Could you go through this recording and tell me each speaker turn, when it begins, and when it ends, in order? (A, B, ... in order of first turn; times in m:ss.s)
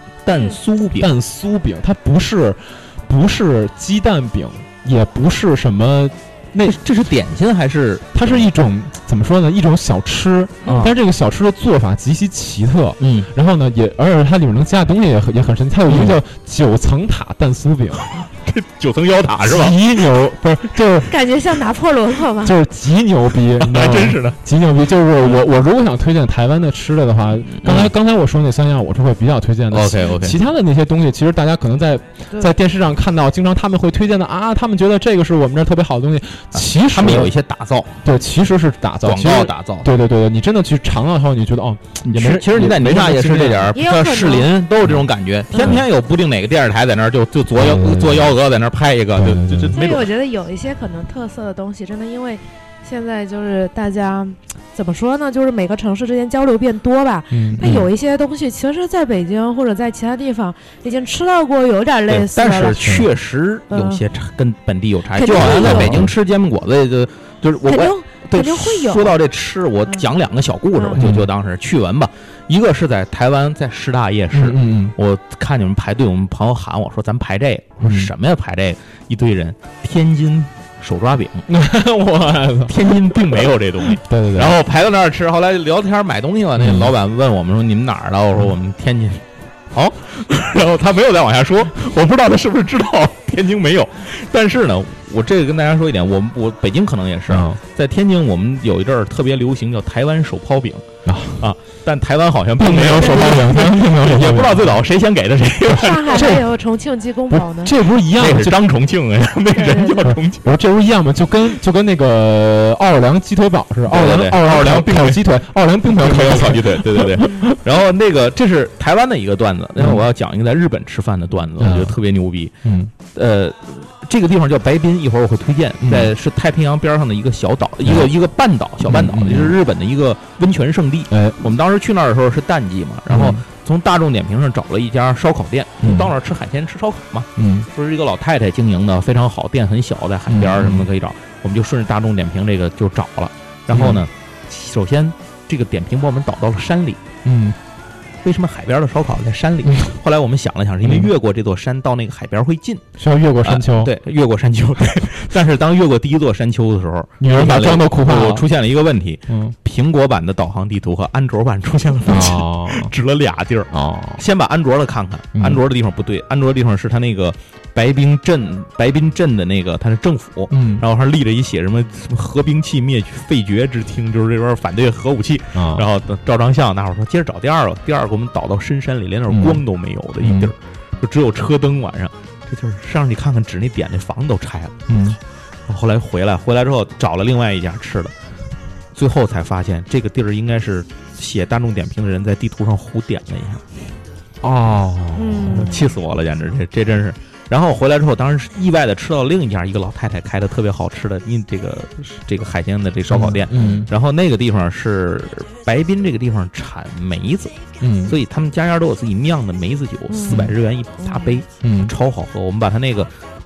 0:00.2-0:01.1 A
0:01.0-0:06.8 B
0:06.6-0:08.4 A
0:08.1-0:18.1 B
0:10.6-0:10.9 A
0:13.0-0:13.3 A
0:15.9-0:16.2 A
0:18.0-0:19.8 A
0:19.4-0:21.1 B
0:21.1-0:22.6 C
0:22.4-0:37.3 B
0:23.6-0:24.4 A
0:27.6-0:27.9 A
0:29.7-0:30.4 A
0:36.5-0:38.0 A
0:38.0-0:43.8 B
0:39.0-0:39.9 A
0:42.0-0:50.1 A
0:43.7-0:44.5 C
0:45.5-0:45.8 C
0:45.6-0:45.8 B
0:47.5-0:48.4 B
0:49.1-0:49.8 B
0:49.7-1:03.0 C
0:57.3-0:57.8 B
1:02.1-1:21.4 A
1:02.8-1:03.1 B
1:03.7-1:04.0 C
1:05.1-1:06.0 C
1:05.3-1:06.1 B
1:07.6-1:09.2 C
1:11.0-1:11.3 B
1:14.3-1:14.9 B
1:17.8-1:18.1 B
1:21.5-1:24.6 B
1:22.7-1:40.8 A
1:26.6-1:26.9 B
1:37.3-1:37.6 B
1:41.0-1:41.4 B
1:41.4-1:46.4 A
1:42.6-1:44.8 B
1:43.0-1:43.3 C
1:45.6-1:47.7 C
1:46.1-1:46.4 B
1:47.3-1:48.6 B
1:48.1-1:50.5 A
1:49.5-1:50.1 C
1:50.0-1:57.6 B
1:53.9-1:55.2 A
1:55.9-2:02.5 A
1:59.8-2:00.0 B
2:01.6-2:02.0 B
2:02.6-2:02.9 B
2:03.1-2:27.0 A
2:05.8-2:06.1 B
2:07.8-2:08.1 B
2:08.8-2:09.6 B
2:11.1-2:11.4 B
2:13.1-2:13.4 B
2:15.8-2:16.1 B
2:17.4-2:17.7 B
2:20.3-2:20.9 B
2:23.7-2:24.0 B
2:27.2-2:27.6 B
2:28.2-2:32.8 A
2:30.8-2:31.1 B
2:33.0-2:33.9 B
2:33.4-3:04.8 A
2:37.2-2:38.5 B
2:39.3-2:39.6 B
2:42.0-2:42.9 B
2:43.7-2:44.2 B
2:45.4-2:45.6 B
2:50.5-2:50.8 B
2:55.5-2:55.8 B
2:59.3-2:59.6 B
3:00.2-3:00.5 B
3:04.9-3:05.2 B
3:05.7-3:08.1 A
3:08.9-3:13.6 A
3:14.4-3:15.8 B
3:15.1-3:15.8 C
3:15.5-3:33.1 A
3:23.1-3:23.9 B
3:27.8-3:28.2 B
3:30.1-3:31.4 C
3:31.6-3:31.9 B